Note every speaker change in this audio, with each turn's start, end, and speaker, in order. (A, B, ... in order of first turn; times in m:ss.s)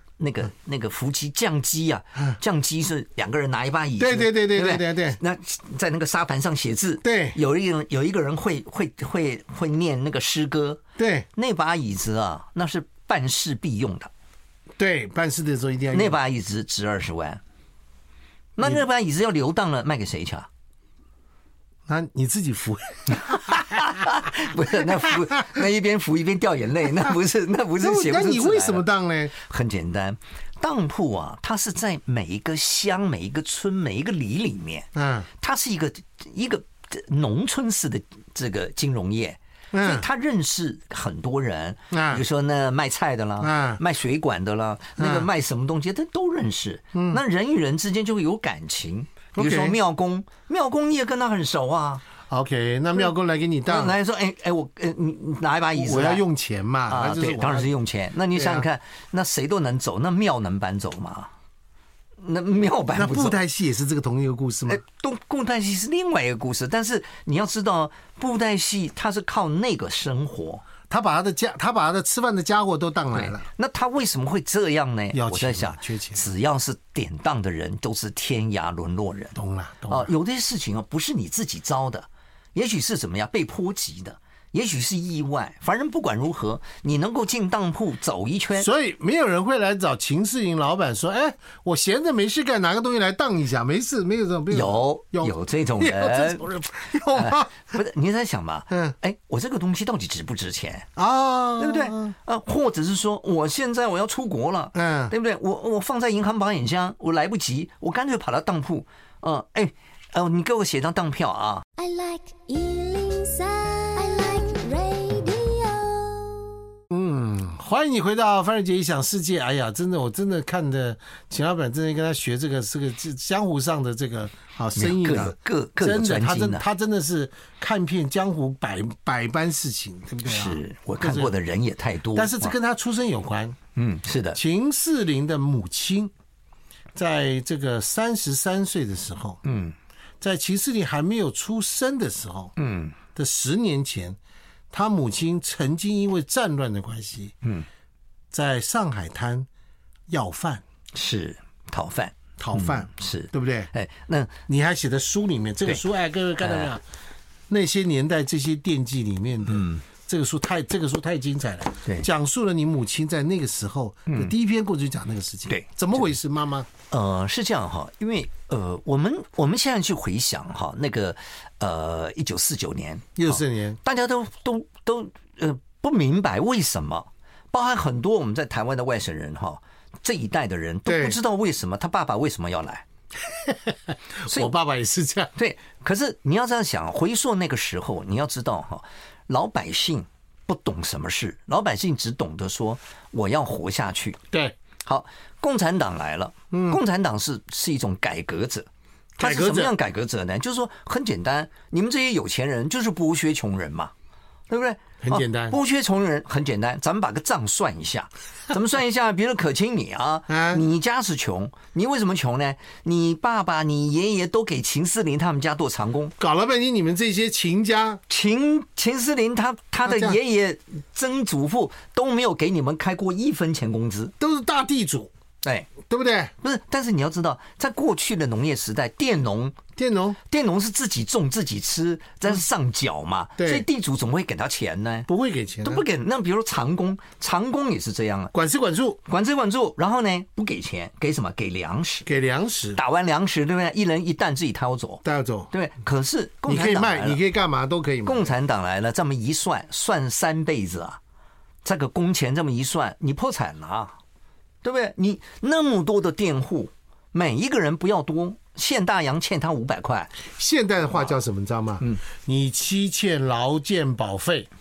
0:00.2-0:10.8 A
0:04.0-0:05.2 B
0:07.0-0:07.4 B
0:11.0-0:11.3 B
0:11.4-0:14.1 A
0:14.8-0:16.2 B
0:15.9-0:17.4 A
0:18.6-0:20.5 A
0:21.9-0:24.1 B
0:23.4-0:34.9 A
0:24.8-0:25.5 B
0:27.8-0:29.3 B
0:35.0-0:35.3 B
0:35.4-0:52.0 A
0:39.7-0:40.1 B
0:41.9-0:42.2 B
0:43.4-0:43.8 B
0:45.0-0:45.3 B
0:46.9-0:47.2 B
0:49.3-0:49.8 B
0:52.3-0:54.0 B
0:53.7-0:56.2 A
0:55.8-0:57.7 B
0:56.9-1:01.3 A
0:58.3-0:58.7 B
1:02.2-1:03.4 A
1:03.0-1:04.8 B
1:04.7-1:10.6 A
1:10.9-1:13.5 B
1:13.1-1:19.4 A
1:15.1-1:16.3 B
1:19.4-1:20.1 B
1:19.9-1:28.7 A
1:28.6-1:37.7 B
1:34.5-1:36.5 A
1:37.1-1:40.9 A
1:38.7-1:39.0 B
1:41.0-1:42.1 B
1:41.6-1:51.6 A
1:44.7-1:45.1 B
1:51.8-1:56.5 C
1:56.9-2:11.3 B
2:04.8-2:06.7 A
2:10.3-2:12.5 A
2:12.1-2:13.6 B
2:13.8-2:14.4 A
2:14.3-2:16.1 B
2:17.0-2:19.4 B
2:19.4-2:19.8 A
2:20.2-2:22.5 B
2:22.6-2:23.0 A
2:23.1-2:24.2 B
2:24.7-2:27.3 B
2:28.3-2:29.5 B
2:30.1-2:30.6 B
2:30.9-2:34.4 A
2:32.4-2:33.7 B
2:34.5-2:36.8 B
2:36.4-2:36.7 A
2:37.5-2:46.7 B
2:39.5-2:39.8 A
2:45.5-2:46.1 A
2:46.9-3:02.8 A
2:53.2-2:53.8 B
3:00.9-3:01.2 B
3:03.2-3:05.3 B
3:04.3-3:04.5 A
3:05.4-3:14.2 A
3:14.8-3:18.7 A
3:16.5-3:16.8 B
3:19.2-3:19.7 B
3:19.2-3:23.9 A
3:24.5-3:36.1 A
3:25.0-3:25.6 B
3:30.3-3:30.6 B
3:36.2-3:38.0 B
3:38.1-3:44.1 A
3:39.8-3:40.2 B
3:44.2-3:45.1 B
3:45.4-3:45.7 A
3:45.9-3:46.3 B
3:46.4-3:49.6 A
3:49.8-3:50.2 B
3:50.3-3:55.1 A
3:53.4-3:53.6 B
3:55.1-3:55.8 B
3:55.6-3:58.3 A
3:58.3-3:59.0 B
3:59.1-4:02.1 A
4:02.1-4:02.8 B
4:02.8-4:07.2 A
4:05.0-4:05.5 B
4:06.5-4:08.3 B
4:08.0-4:11.0 A
4:11.6-4:14.0 A
4:14.6-4:20.1 A
4:20.2-4:24.5 B